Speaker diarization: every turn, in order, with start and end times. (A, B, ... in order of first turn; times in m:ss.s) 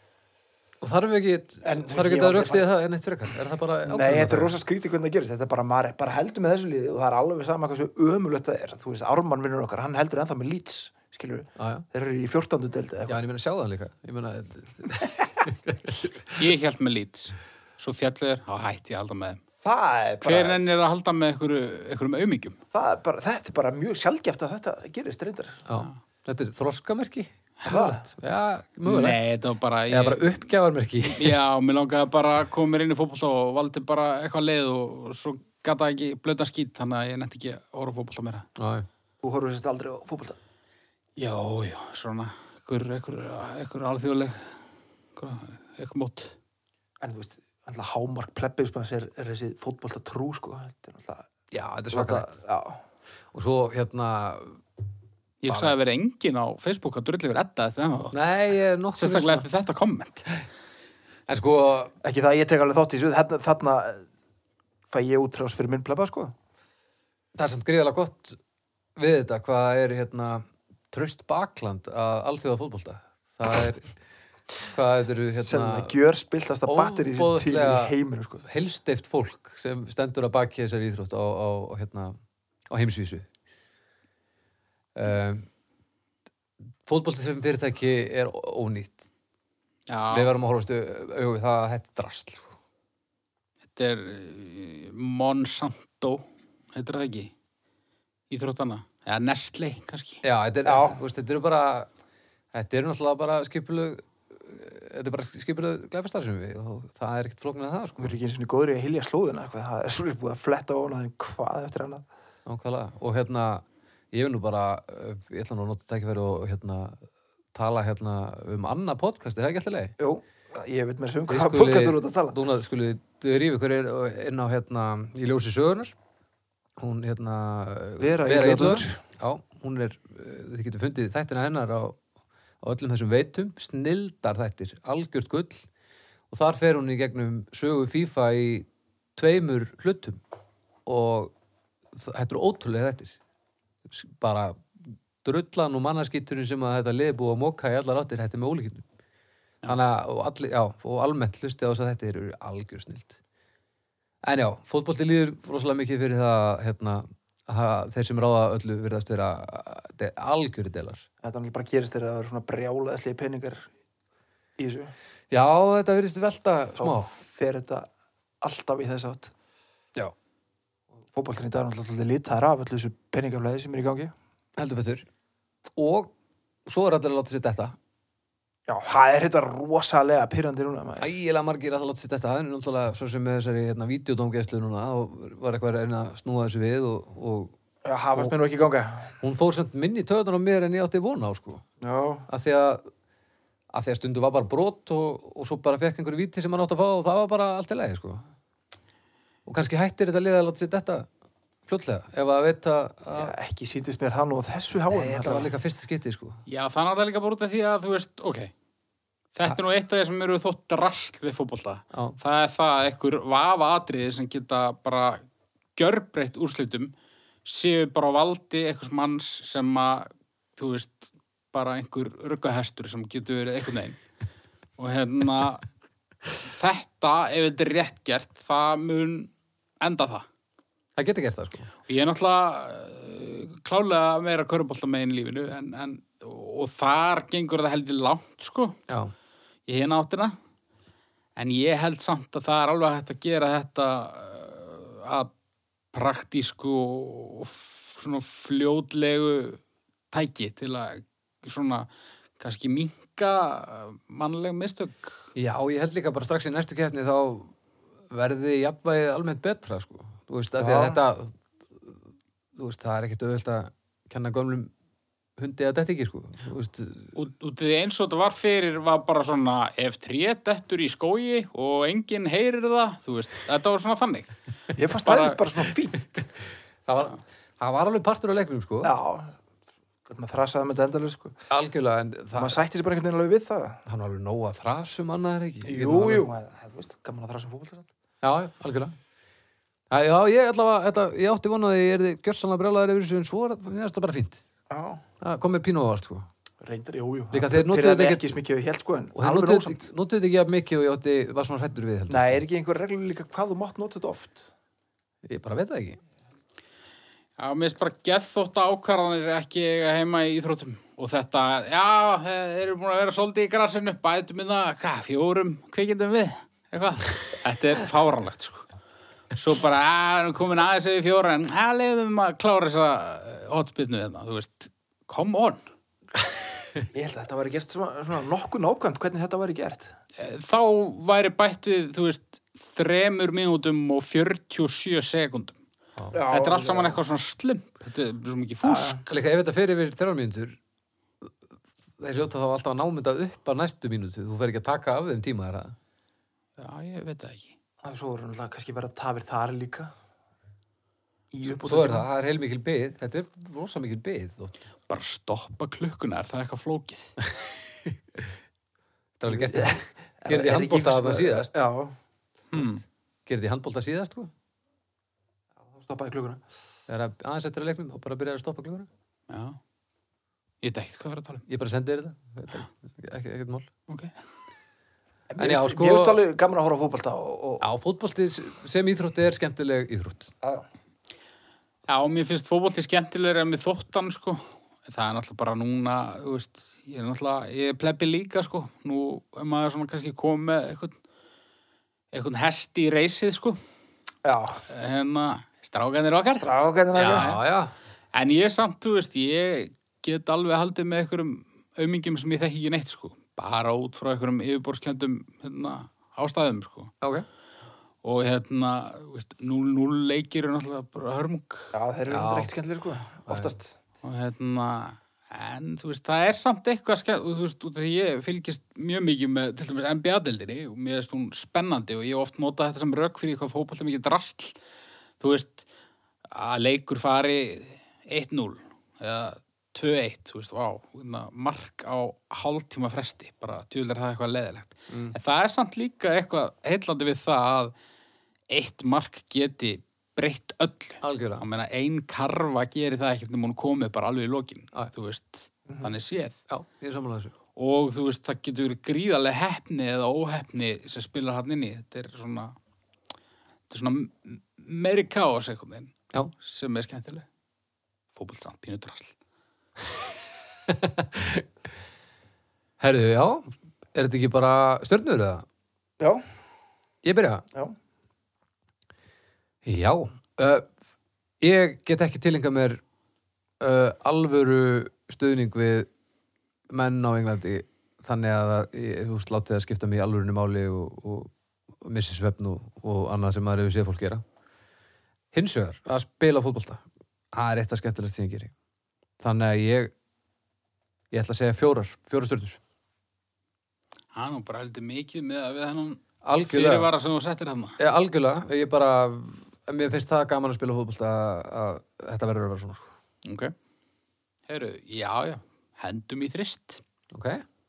0:00.8-0:04.6 A
0:01.6-0:02.7 B
0:03.8-0:13.2 B
0:11.6-0:11.8 A
0:13.1-0:16.5 A
0:16.4-0:19.4 C
0:19.6-0:20.6 B
0:20.2-0:22.6 C
0:22.7-0:25.6 B
0:25.7-0:29.2 A
0:27.6-0:28.0 B
0:28.8-0:30.4 C
0:29.9-0:31.4 A
0:31.0-0:38.5 C
0:38.6-0:38.9 A
0:39.2-0:40.4 B
0:41.2-0:44.6 C
0:45.2-0:46.4 C
0:47.0-0:51.3 B
0:51.5-0:52.3 A
0:51.9-0:52.8 B
0:53.3-0:54.6 A
0:55.4-0:58.2 C
0:55.5-0:55.7 A
0:58.1-0:59.4 A
0:59.0-1:00.3 C
1:01.3-1:01.9 A
1:02.0-1:04.0 B
1:04.9-1:06.3 B
1:07.3-1:08.4 A
1:09.0-1:13.9 A
1:14.7-1:15.9 A
1:15.4-1:18.5 B
1:16.6-1:17.9 A
1:18.4-1:22.2 A
1:22.7-1:23.3 A
1:25.0-1:25.5 A
1:26.8-1:29.0 A
1:29.9-1:30.3 C
1:30.1-1:32.5 A
1:33.7-1:37.3 C
1:38.3-1:40.2 C
1:40.2-1:41.9 A
1:40.6-1:41.0 B
1:42.5-1:48.2 A
1:48.0-1:52.0 B
1:52.4-1:57.0 A
1:57.5-1:59.9 A
2:00.0-2:02.4 B
2:01.3-2:05.9 A
2:06.8-2:12.0 A
2:08.0-2:09.0 B
2:12.6-2:15.6 A
2:16.3-2:20.2 A
2:20.8-2:21.3 A
2:21.9-2:23.2 A
2:23.9-2:28.8 A
2:29.7-2:33.2 A
2:34.2-2:41.0 A
2:41.2-2:43.7 B
2:44.6-2:44.9 B
2:45.3-2:47.1 A
2:46.8-2:47.9 B
2:48.4-2:49.3 B
2:51.1-2:54.1 B
2:54.6-2:55.1 A
2:55.7-2:56.1 A
2:56.6-2:57.8 A
2:58.7-3:01.1 B
3:01.0-3:07.5 A
3:07.8-3:09.1 B
3:09.2-3:11.6 A
3:11.8-3:12.3 B
3:12.3-3:12.8 A
3:13.7-3:18.2 A
3:19.4-3:21.1 A
3:21.7-3:23.3 A
3:23.1-3:25.5 B
3:24.9-3:26.4 A
3:26.5-3:28.5 C
3:29.3-3:35.2 C
3:35.8-3:36.9 C
3:37.4-3:44.0 C
3:44.8-3:45.6 C
3:46.4-3:50.2 C
3:51.0-3:51.7 A
3:51.9-3:58.8 C
3:58.9-3:59.1 A
3:59.7-4:00.3 C
4:01.4-4:05.3 C
4:05.9-4:11.9 C
4:12.4-4:15.2 C
4:15.4-4:17.5 A
4:18.1-4:22.0 A
4:20.6-4:21.0 B
4:22.5-4:24.7 A
4:25.4-4:27.1 A
4:27.1-4:34.3 C
4:34.8-4:36.2 B
4:35.0-4:35.4 C
4:36.8-4:38.9 A
4:38.8-4:39.4 B
4:40.0-4:41.4 B
4:41.5-4:42.6 A
4:42.3-4:43.8 B
4:43.8-4:46.3 A
4:45.6-4:47.9 B
4:48.2-4:49.0 A
4:49.9-4:54.4 A
4:54.7-4:55.0 B
4:55.2-4:56.3 A
4:56.6-4:59.9 B
4:57.3-4:58.4 A
4:59.2-5:02.4 A
5:02.1-5:04.5 B
5:05.2-5:06.0 A
5:07.4-5:18.7 C
5:19.3-5:25.6 C
5:26.9-5:29.9 B
5:30.2-5:35.6 C
5:36.1-5:37.0 B
5:36.3-5:39.0 C
5:38.6-5:39.0 B
5:39.0-5:40.6 A
5:42.0-5:45.7 A
5:46.6-5:47.5 C
5:47.8-5:49.9 B
5:51.3-5:52.1 B
5:51.4-5:54.6 A
5:54.9-5:57.1 C
5:57.8-5:58.3 A
5:59.2-6:01.5 A
5:59.3-6:01.9 B
6:02.5-6:02.8 C
6:03.2-6:04.3 A
6:05.6-6:06.4 B
6:06.9-6:08.9 A
6:09.3-6:09.6 C
6:10.6-6:11.4 C
6:11.5-6:13.7 A
6:13.9-6:14.1 C
6:15.3-6:17.6 B
6:15.4-6:16.2 A
6:17.6-6:20.3 A
6:21.9-6:31.0 C
6:32.1-6:33.6 C
6:34.2-6:34.6 B
6:34.7-6:37.4 C
6:36.4-6:37.3 B
6:37.0-6:37.7 A
6:38.1-6:46.9 C
6:47.0-6:47.2 A
6:48.0-6:51.7 C
6:51.7-6:53.7 B
6:52.1-6:52.5 A
6:53.3-6:53.5 A
6:54.0-7:04.6 C
7:05.2-7:05.6 C
7:06.3-7:17.7 C
7:14.9-7:15.2 A
7:18.5-7:26.4 C
7:21.0-7:21.4 A
7:26.5-7:27.3 A
7:27.6-7:32.6 C
7:33.7-7:37.2 C
7:38.2-7:39.1 C
7:40.7-7:41.4 A
7:42.8-7:45.4 A
7:47.0-7:47.4 A
7:49.6-7:50.6 A
7:51.4-7:52.8 A
7:53.6-7:55.9 A
7:56.7-8:01.3 A
8:01.8-8:04.2 A
8:05.3-8:06.8 A
8:07.3-8:08.5 A
8:09.2-8:09.9 A
8:11.1-8:12.6 A
8:14.1-8:17.8 C
8:16.2-8:16.9 A
8:17.8-8:22.9 A
8:23.2-8:23.5 C
8:24.5-8:26.8 C
8:27.1-8:27.4 A